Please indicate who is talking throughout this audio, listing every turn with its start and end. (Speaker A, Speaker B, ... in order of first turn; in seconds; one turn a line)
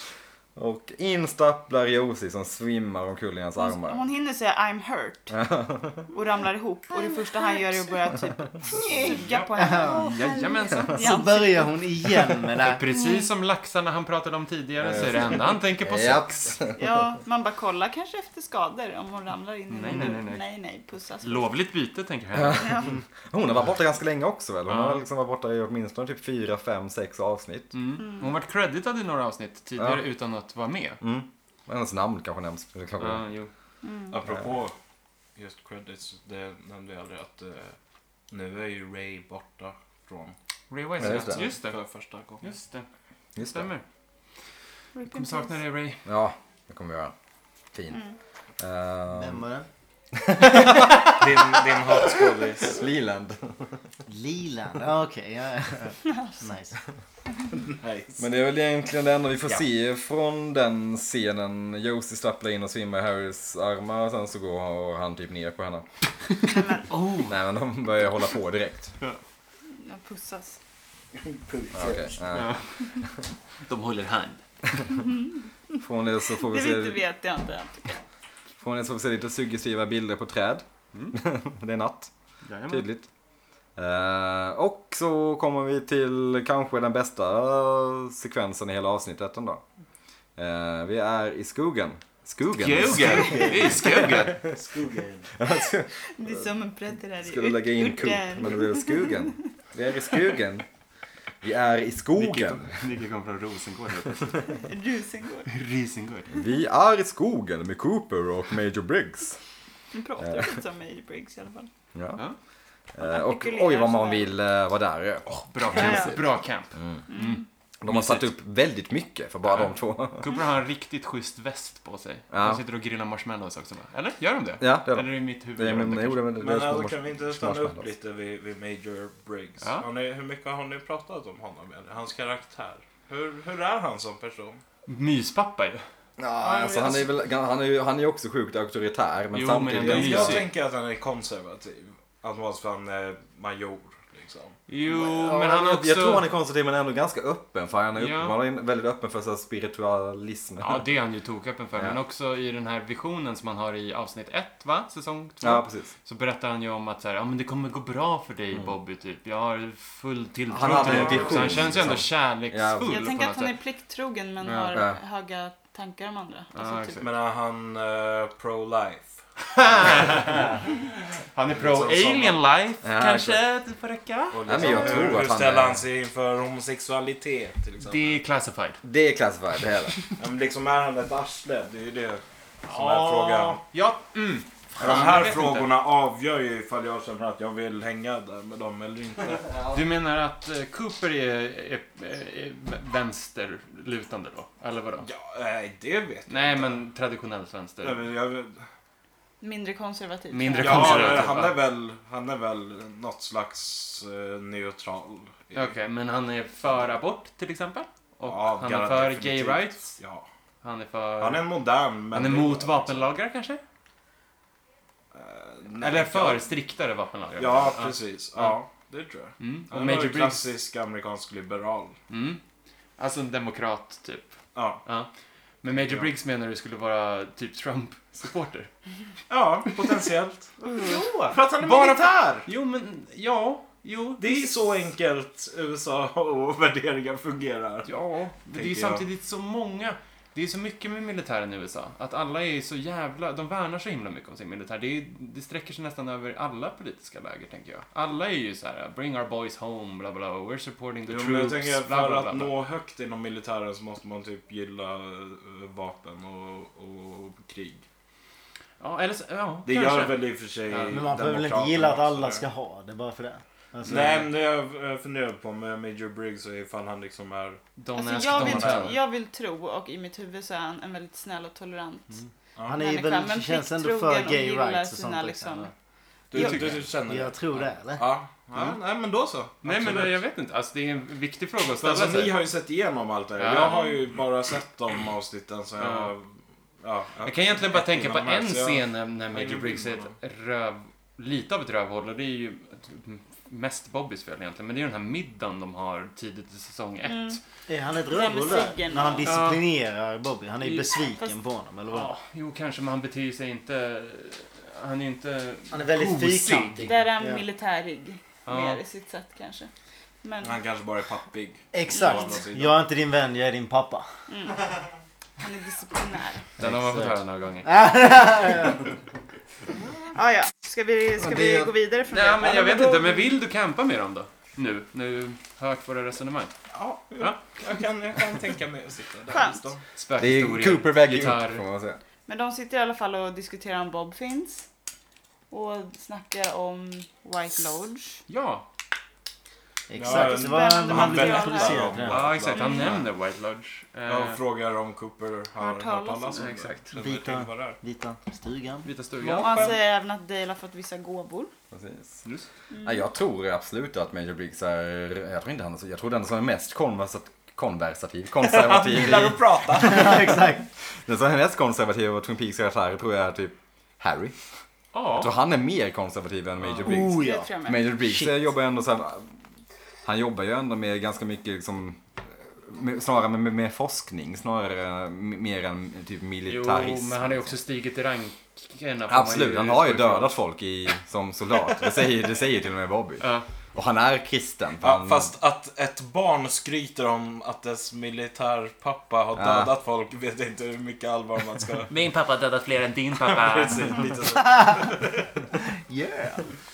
Speaker A: 0.6-4.0
Speaker B: 3.6-5.3
Speaker A: 5.3-6.1
Speaker B: 6.1-11.8
Speaker C: 9.0-11.1
Speaker D: 9.6-10.1
Speaker D: 10.9-12.8
Speaker C: 12.6-16.6
Speaker B: 12.9-13.3
Speaker A: 14.8-16.9
Speaker B: 16.8-21.5
Speaker C: 19.7-20.4
Speaker C: 21.2-22.9
Speaker A: 22.3-27.7
Speaker B: 22.6-22.9
Speaker C: 24.7-25.0
Speaker C: 27.7-31.0
Speaker B: 28.0-28.3
Speaker A: 29.8-30.0
Speaker A: 31.0-33.2
Speaker C: 33.0-33.5
Speaker B: 33.8-34.1
Speaker E: 34.1-34.7
Speaker E: 35.4-37.8
Speaker E: 38.3-40.3
Speaker C: 40.7-41.8
Speaker E: 41.0-42.5
Speaker A: 41.0-41.4
Speaker C: 42.4-42.9
Speaker A: 43.4-43.7
Speaker C: 43.4-43.8
Speaker B: 45.0-45.6
Speaker C: 45.1-46.0
Speaker A: 46.0-47.1
Speaker A: 47.7-48.0
Speaker A: 48.6-49.4
Speaker D: 49.1-49.7
Speaker A: 50.1-52.1
Speaker E: 51.0-52.8
Speaker A: 52.6-53.8
Speaker D: 54.1-56.8
Speaker B: 56.0-56.4
Speaker E: 57.5-58.2
Speaker A: 58.2-65.8
Speaker C: 66.4-67.3
Speaker B: 66.5-66.9
Speaker A: 67.2-69.0
Speaker B: 69.7-70.6
Speaker E: 71.1-72.2
Speaker A: 71.7-73.1
Speaker C: 72.3-73.0
Speaker C: 73.7-74.4
Speaker B: 75.0-75.8
Speaker A: 75.8-77.0
Speaker B: 76.4-78.0
Speaker A: 78.6-82.1
Speaker C: 82.4-82.9
Speaker A: 82.7-83.1
Speaker A: 83.8-89.6
Speaker A: 90.4-94.4
Speaker C: 92.6-94.4
Speaker E: 92.9-95.3
Speaker A: 95.3-96.5
Speaker B: 96.1-99.5
Speaker A: 97.2-100.6
Speaker A: 101.4-102.8
Speaker C: 102.1-104.6
Speaker B: 104.5-105.5
Speaker C: 105.5-106.3
Speaker A: 106.3-109.4
Speaker B: 109.9-111.7
Speaker A: 110.2-110.5
Speaker A: 111.9-112.2
Speaker A: 112.9-116.2
Speaker B: 113.0-114.3
Speaker C: 115.5-118.3
Speaker B: 115.7-116.2
Speaker A: 116.7-117.0
Speaker B: 117.1-117.4
Speaker A: 117.8-120.3
Speaker C: 119.5-126.2
Speaker A: 122.3-122.6
Speaker A: 124.6-127.9
Speaker E: 126.4-134.6
Speaker C: 129.6-129.8
Speaker C: 134.9-135.8
Speaker A: 136.2-140.4
Speaker C: 136.4-137.0
Speaker C: 139.3-140.5
Speaker E: 139.8-144.6
Speaker C: 144.7-146.2
Speaker A: 144.9-150.8
Speaker C: 147.9-148.4
Speaker C: 150.6-163.5
Speaker A: 155.4-155.9
Speaker A: 160.5-163.1
Speaker E: 160.8-161.4
Speaker B: 162.8-167.1
Speaker C: 164.4-164.8
Speaker A: 164.7-165.0
Speaker C: 166.5-167.1
Speaker E: 167.0-170.6
Speaker C: 169.6-170.7
Speaker C: 171.3-175.0
Speaker E: 171.5-172.4
Speaker A: 172.8-173.4
Speaker E: 174.3-178.2
Speaker A: 174.4-175.8
Speaker C: 177.8-178.8
Speaker A: 178.8-179.9
Speaker E: 180.2-183.6
Speaker C: 182.7-185.7
Speaker E: 184.8-189.6
Speaker C: 189.7-195.1
Speaker E: 195.0-196.8
Speaker C: 196.3-198.0
Speaker E: 197.8-198.7
Speaker B: 199.4-201.3
Speaker C: 200.3-201.6
Speaker E: 200.5-205.7
Speaker C: 205.5-210.0
Speaker E: 208.2-210.2
Speaker C: 210.6-211.5
Speaker E: 211.2-213.1
Speaker C: 212.1-213.6
Speaker E: 215.1-216.4
Speaker C: 215.8-218.6
Speaker E: 217.4-222.0
Speaker C: 219.4-220.5
Speaker C: 222.1-222.4
Speaker C: 223.0-225.1
Speaker E: 224.5-224.8
Speaker C: 225.6-228.7
Speaker E: 225.8-226.1
Speaker E: 229.3-232.5
Speaker B: 230.6-231.0
Speaker C: 230.7-234.5
Speaker E: 234.2-237.9
Speaker C: 237.8-252.5
Speaker E: 238.5-239.1
Speaker E: 251.1-257.8
Speaker C: 258.8-261.0
Speaker E: 259.6-262.4
Speaker D: 260.9-264.3
Speaker E: 263.8-267.6
Speaker C: 263.9-264.2
Speaker C: 267.8-269.0
Speaker B: 267.9-272.2
Speaker E: 268.2-269.0
Speaker D: 272.1-275.7
Speaker E: 272.6-272.8
Speaker B: 272.8-275.7
Speaker E: 276.3-277.4
Speaker B: 276.3-276.7
Speaker C: 276.3-276.8
Speaker D: 277.0-278.1
Speaker E: 277.9-280.2
Speaker C: 279.6-282.4
Speaker E: 281.8-290.1
Speaker C: 283.4-283.8
Speaker C: 285.8-286.1
Speaker C: 287.2-297.4
Speaker B: 297.0-297.4
Speaker D: 297.7-302.1
Speaker B: 298.1-299.3
Speaker C: 299.2-299.6
Speaker C: 300.6-300.9
Speaker B: 301.1-301.4
Speaker C: 301.9-306.9
Speaker D: 305.7-307.4
Speaker B: 306.8-309.7
Speaker C: 308.4-308.8
Speaker B: 310.2-310.6
Speaker E: 310.4-312.8
Speaker D: 311.7-314.1
Speaker B: 312.0-312.3
Speaker B: 314.3-314.6
Speaker B: 315.4-316.5
Speaker C: 316.6-317.8
Speaker D: 316.6-318.9
Speaker B: 320.1-323.0
Speaker A: 321.2-321.7
Speaker C: 322.1-326.5
Speaker E: 326.7-329.8
Speaker B: 329.3-329.6
Speaker C: 330.0-331.6
Speaker A: 330.2-332.0
Speaker B: 332.2-334.7
Speaker B: 335.5-338.2
Speaker C: 338.3-338.6
Speaker D: 339.9-342.2
Speaker E: 339.9-343.0
Speaker B: 340.1-341.9
Speaker C: 342.1-344.4
Speaker B: 342.5-342.9
Speaker E: 344.1-347.8
Speaker B: 345.6-346.5
Speaker C: 346.3-346.9
Speaker D: 347.0-348.9
Speaker C: 348.8-349.8
Speaker E: 349.2-349.7
Speaker B: 349.3-351.5
Speaker A: 351.7-352.2
Speaker B: 352.7-353.0
Speaker A: 352.8-360.4
Speaker E: 358.4-360.4
Speaker D: 359.7-360.7
Speaker A: 360.9-364.3
Speaker C: 364.9-365.3
Speaker A: 365.2-369.3
Speaker C: 366.6-366.9
Speaker D: 366.8-367.5
Speaker B: 367.0-367.8
Speaker D: 368.0-368.4
Speaker A: 370.0-377.6
Speaker C: 376.5-380.4
Speaker A: 379.1-385.3
Speaker C: 383.2-383.4
Speaker E: 384.8-391.9
Speaker A: 389.3-389.7
Speaker C: 391.9-394.1
Speaker E: 393.2-394.9
Speaker D: 395.8-396.5